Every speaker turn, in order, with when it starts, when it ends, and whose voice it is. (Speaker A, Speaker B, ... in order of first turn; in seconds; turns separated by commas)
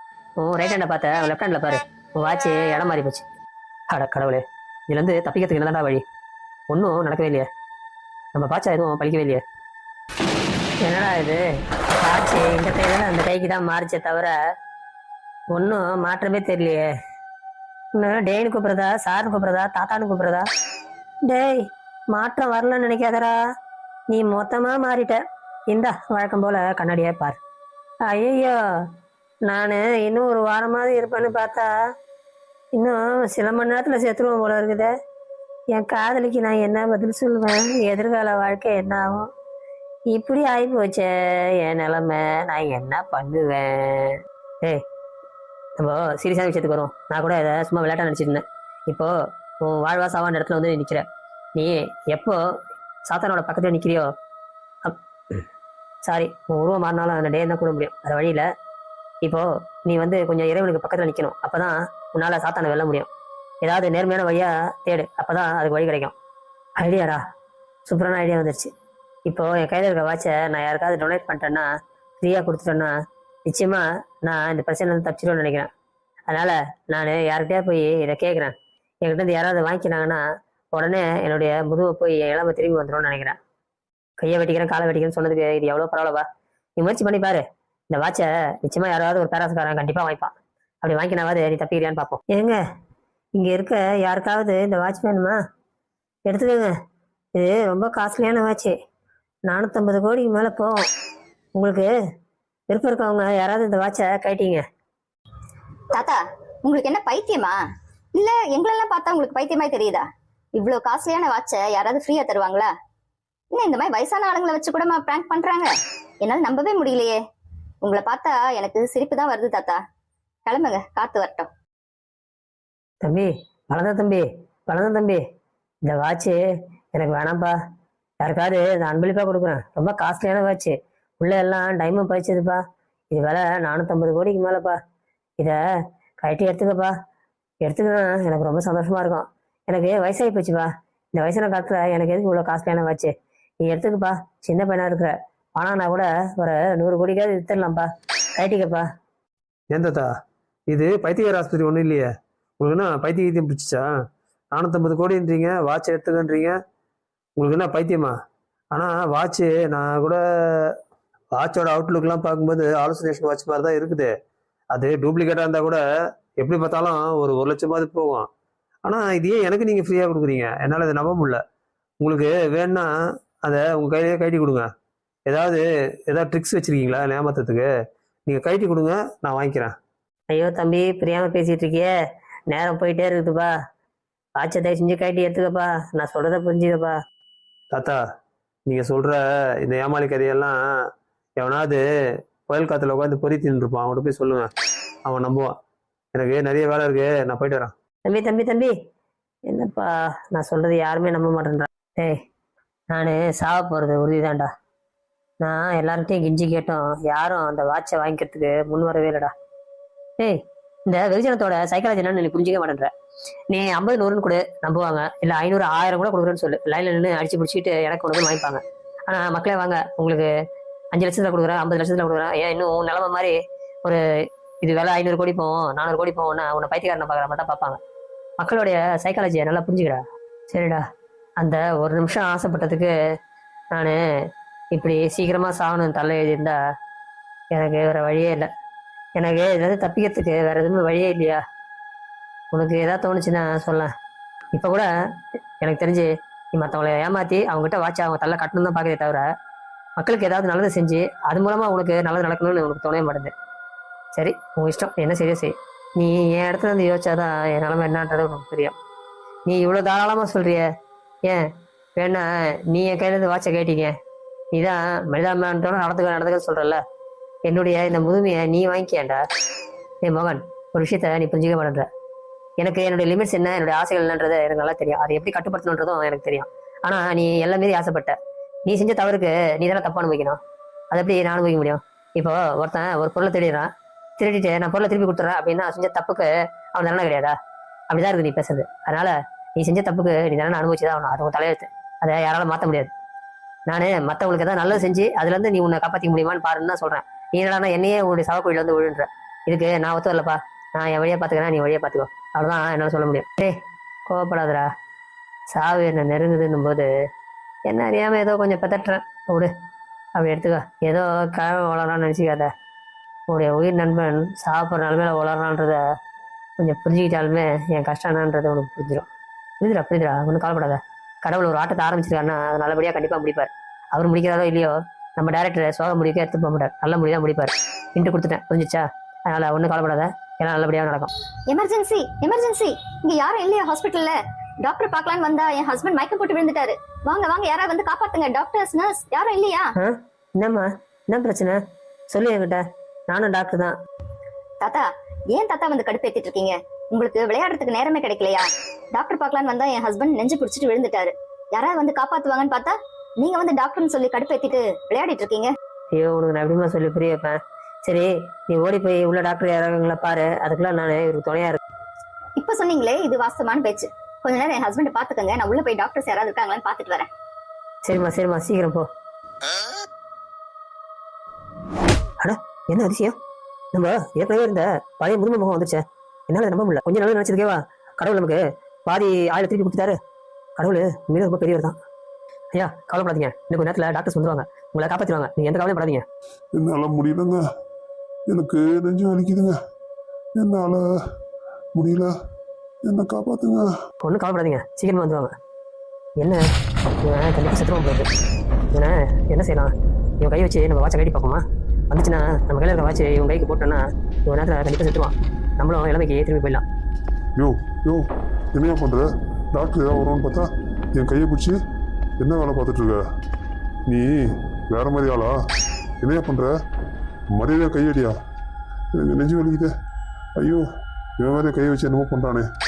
Speaker A: 0.4-3.3, Speaker A: 3.9-6.0, Speaker A: 6.7-7.5, Speaker A: 8.3-9.4, Speaker A: 10.8-11.4, Speaker A: 12.0-14.3, Speaker A: 15.5-16.9, Speaker A: 17.9-20.4, Speaker A: 21.2-23.4, Speaker A: 24.1-27.4, Speaker A: 28.1-28.9, Speaker A: 29.4-31.7, Speaker A: 32.7-34.9, Speaker A: 35.7-39.3, Speaker A: 40.1-44.8, Speaker A: 45.8-52.4, Speaker A: 53.0-54.1, Speaker A: 54.8-55.4, Speaker A: 56.0-58.4, Speaker A: 59.2-63.1, Speaker A: 63.6-66.1, Speaker A: 66.8-67.2, Speaker A: 67.8-68.7, Speaker A: 69.3-71.7, Speaker A: 72.2-72.9, Speaker A: 73.5-75.7, Speaker A: 76.3-83.4, Speaker A: 84.2-86.2, Speaker A: 86.8-92.6, Speaker A: 93.4-95.4, Speaker A: 96.3-96.7, Speaker A: 97.3-98.8, Speaker A: 99.5-100.8, Speaker A: 101.5-101.9, Speaker A: 102.7-104.6, Speaker B: 105.9-107.6, Speaker B: 108.1-112.7, Speaker B: 113.5-117.2, Speaker B: 117.8-119.8, Speaker B: 120.5-121.5, Speaker A: 123.0-125.2, Speaker A: 125.8-126.4, Speaker A: 126.9-127.5, Speaker A: 128.2-134.8, Speaker A: 136.2-136.9, Speaker A: 137.6-148.9, Speaker C: 149.7-150.1, Speaker C: 150.7-152.1, Speaker C: 152.6-153.9, Speaker C: 154.5-156.6, Speaker C: 157.4-158.1, Speaker C: 158.7-160.8, Speaker C: 161.3-164.1, Speaker C: 164.7-165.8, Speaker C: 166.4-168.3, Speaker C: 168.8-171.4, Speaker C: 172.0-174.7, Speaker C: 175.3-177.7, Speaker C: 178.3-179.7, Speaker A: 180.3-181.9, Speaker A: 182.5-183.5, Speaker A: 184.4-187.0, Speaker C: 187.7-188.0, Speaker C: 188.7-190.6, Speaker C: 191.4-191.8, Speaker C: 192.5-194.5, Speaker C: 195.1-195.6, Speaker C: 196.1-197.7, Speaker A: 198.1-198.7, Speaker A: 199.5-202.2, Speaker A: 202.9-204.5, Speaker A: 205.4-209.3, Speaker A: 210.2-212.9, Speaker A: 213.5-220.3, Speaker A: 220.9-223.3, Speaker A: 224.6-227.8, Speaker A: 228.4-230.8, Speaker A: 231.4-232.9, Speaker A: 233.7-234.0, Speaker A: 234.7-236.6, Speaker A: 237.5-238.5, Speaker A: 239.2-241.4, Speaker A: 242.5-243.9, Speaker A: 244.5-244.9, Speaker A: 245.6-249.2, Speaker A: 250.0-253.3, Speaker A: 254.1-258.7, Speaker A: 259.5-260.6, Speaker A: 261.2-263.9, Speaker A: 264.5-266.8, Speaker A: 267.4-269.2, Speaker A: 270.0-271.9, Speaker A: 272.6-280.4, Speaker A: 280.9-287.3, Speaker A: 287.9-292.9, Speaker A: 293.7-303.5, Speaker A: 304.1-304.7, Speaker A: 305.5-306.9, Speaker A: 307.7-309.5, Speaker A: 310.2-312.5, Speaker A: 313.3-315.8, Speaker A: 316.6-319.1, Speaker A: 319.6-331.1, Speaker B: 331.5-339.7, Speaker A: 339.8-341.6, Speaker A: 342.1-343.8, Speaker B: 344.6-355.5, Speaker A: 355.9-361.6, Speaker B: 362.4-367.1, Speaker A: 367.8-368.9, Speaker A: 372.2-373.1, Speaker A: 373.7-380.0, Speaker A: 380.6-381.8, Speaker A: 382.5-386.0, Speaker D: 386.6-387.4, Speaker D: 388.3-389.6, Speaker D: 390.4-390.8, Speaker D: 391.7-392.1, Speaker D: 392.8-393.7, Speaker A: 394.0-395.3, Speaker A: 396.2-396.4, Speaker A: 397.0-398.1, Speaker A: 398.7-406.6, Speaker D: 407.4-411.6, Speaker D: 412.2-413.0, Speaker D: 413.9-415.4, Speaker D: 416.0-416.5, Speaker D: 417.4-418.1, Speaker D: 418.9-419.7, Speaker D: 420.4-420.6, Speaker D: 421.2-422.4